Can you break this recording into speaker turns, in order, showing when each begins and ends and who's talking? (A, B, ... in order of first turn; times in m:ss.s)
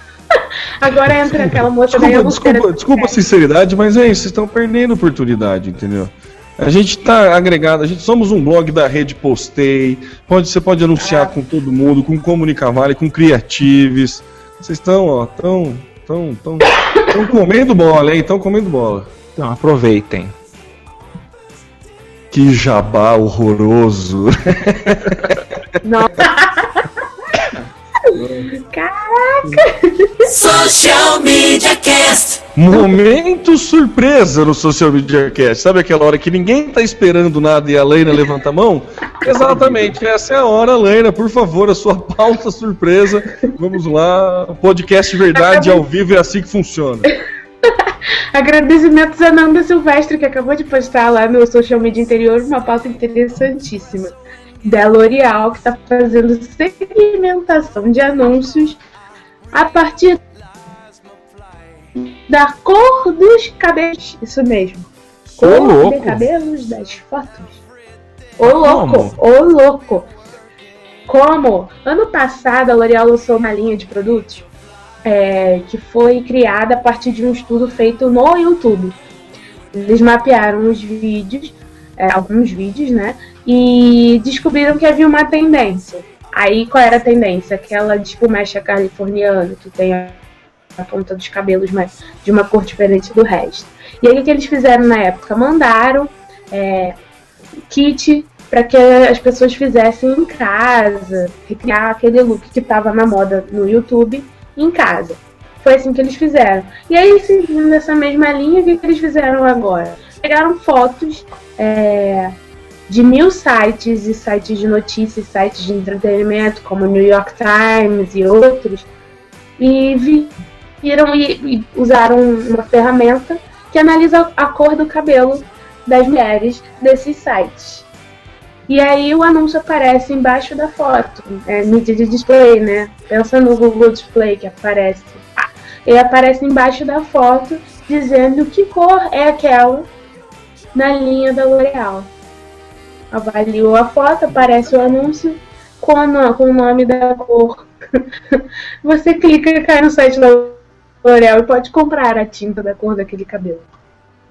0:00.8-0:03.2 A
0:01.9-0:19.1 B
0:11.0-0:11.3 A
0:19.4-0:20.3 C
0:22.3-0:25.4 B
0:25.8-0:26.9 A
0:28.1-0:30.3 A
0:28.2-0:28.5 B
0:30.3-0:32.4 D
0:32.6-0:47.2 B
0:45.4-0:45.8 A
0:47.7-0:58.8 A
0:59.5-1:00.2 A
1:02.3-1:07.6 A
1:05.4-1:06.2 C
1:08.4-1:10.1 A
1:08.4-1:09.2 C
1:11.1-1:14.5 A
1:15.0-1:19.0 A
1:19.7-1:30.2 A
1:30.8-1:37.0 A
1:37.7-1:52.4 A
1:52.9-1:58.9 A
1:59.6-2:07.9 A
2:08.7-2:15.3 A
2:15.8-2:19.9 A
2:20.7-2:22.1 A
2:23.1-2:28.0 A
2:28.8-2:33.7 A